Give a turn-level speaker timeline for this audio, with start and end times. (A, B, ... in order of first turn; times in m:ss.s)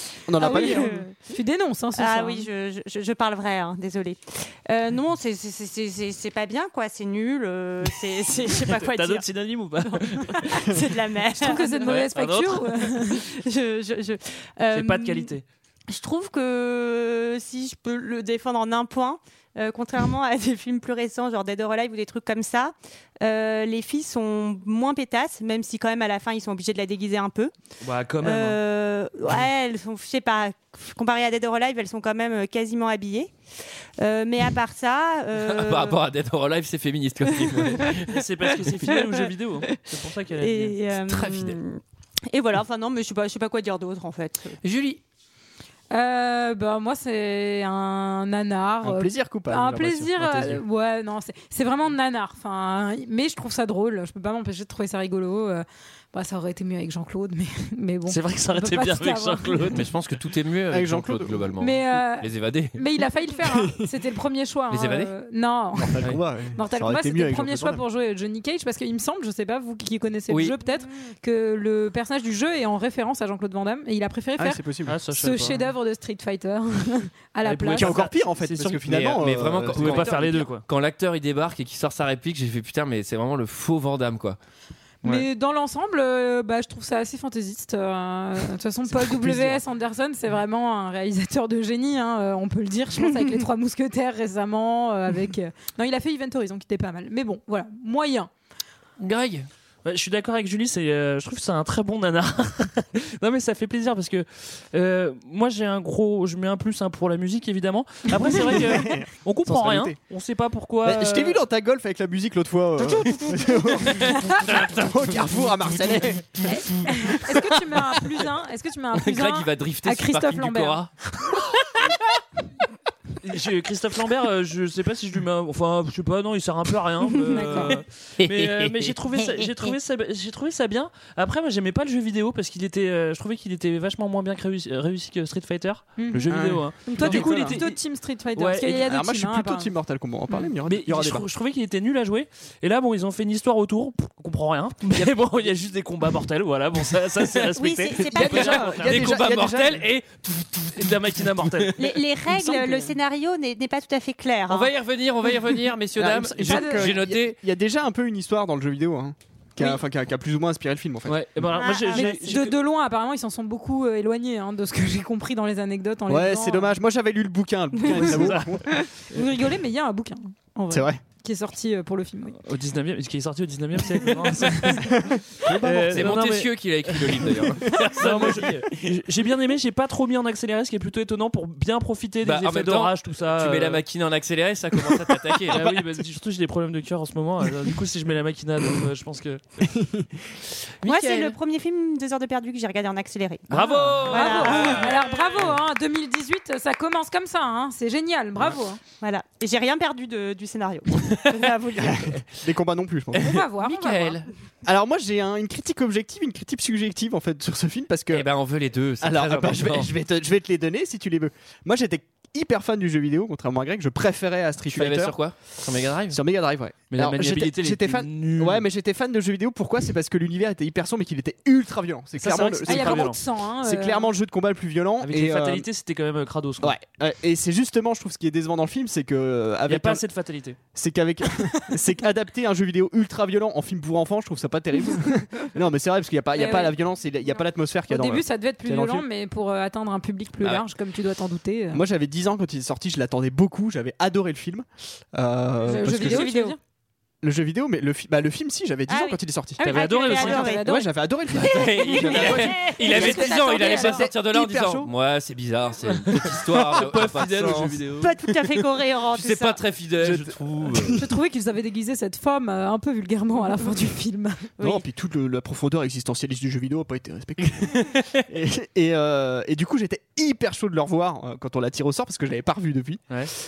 0:00.3-0:01.0 A
0:00.4-0:01.2 B
0:01.2-0:02.5 C
0:02.0-0:09.3 B
0:08.7-0:10.7 D
0:09.8-0:12.1 B
0:11.4-0:13.2 C
0:11.4-0:13.0 D
0:12.9-0:15.4 B
0:14.7-0:15.4 D
0:15.9-0:27.5 B
0:27.8-0:28.6 D
0:28.2-0:33.4 B
0:34.0-0:36.0 B
0:35.4-0:38.1 E
0:37.4-0:38.0 B
0:38.1-0:40.8 D
0:38.6-0:39.7 B
0:40.3-0:44.6 B
0:41.1-0:41.6 E
0:44.6-0:45.0 E
0:45.9-0:59.8 C
0:48.8-0:50.6 A
0:58.1-0:59.9 D
0:59.7-1:02.8 E
1:00.7-1:01.5 A
1:01.6-1:18.0 C
1:04.7-1:05.1 E
1:05.8-1:07.8 A
1:10.3-1:10.6 E
1:14.4-1:15.0 A
1:14.9-1:15.7 D
1:17.4-1:18.8 D
1:17.8-1:20.5 A
1:18.7-1:24.4 E
1:19.7-1:20.6 D
1:25.0-1:38.3 C
1:28.9-1:29.6 A
1:39.0-1:39.5 E
1:39.8-1:51.4 D
1:48.3-1:50.0 A
1:50.8-1:56.5 A
1:53.8-1:58.0 E
1:56.5-2:00.8 C
1:58.9-2:01.4 E
2:03.2-2:17.8 D
2:07.3-2:07.8 C
2:08.2-2:08.9 E
2:16.0-2:16.3 C
2:16.3-2:17.6 A
2:16.9-2:19.7 C
2:18.4-2:18.8 D
2:18.7-2:21.3 A
2:20.6-2:29.1 D
2:27.6-2:28.7 B
2:28.1-2:29.8 A
2:28.3-2:31.0 E
2:30.8-2:31.8 D
2:31.8-2:34.7 B
2:32.3-2:33.0 A
2:34.5-2:37.4 E
2:36.0-2:41.2 A
2:36.4-2:37.0 C
2:41.1-2:42.5 D
2:41.6-2:42.3 B
2:41.9-2:46.7 C
2:46.1-2:48.7 A
2:48.0-2:48.6 D
2:49.1-2:52.4 C
2:50.7-2:51.0 A
2:52.4-3:03.8 D
2:54.6-2:56.3 A
2:55.9-2:58.4 E
2:57.6-2:58.6 A
3:02.2-3:05.6 E
3:05.5-3:09.6 D
3:05.6-3:05.9 A
3:09.6-3:10.1 A
3:10.8-3:11.4 E
3:10.8-3:14.9 B
3:13.5-3:14.7 D
3:13.7-3:15.0 E
3:14.1-3:18.8 C
3:19.0-3:22.0 B
3:21.1-3:21.5 E
3:21.8-3:23.4 A
3:23.1-3:24.3 E
3:23.2-3:24.2 C
3:24.6-3:28.3 A
3:28.1-3:29.9 E
3:29.0-3:35.2 A
3:34.7-3:36.2 E
3:36.1-3:43.1 A
3:36.9-3:38.6 D
3:42.2-3:43.2 D
3:42.7-3:44.1 C
3:43.6-3:45.7 A
3:45.0-3:46.8 D
3:46.6-3:50.0 A
3:49.7-3:50.6 D
3:50.7-3:59.1 A
3:56.4-3:56.8 C
3:57.9-4:01.8 C
4:01.7-4:06.3 A
4:05.7-4:06.6 C
4:05.7-4:06.6 B
4:07.2-4:09.6 A
4:08.9-4:10.7 B
4:09.6-4:10.6 D
4:09.7-4:10.9 C
4:10.6-4:14.9 A
4:11.3-4:17.8 E
4:12.1-4:14.1 C
4:16.1-4:18.1 D
4:18.0-4:19.6 B
4:19.1-4:21.0 E
4:20.0-4:21.1 A
4:21.0-4:24.5 C
4:24.6-4:24.8 B
4:24.6-4:33.1 A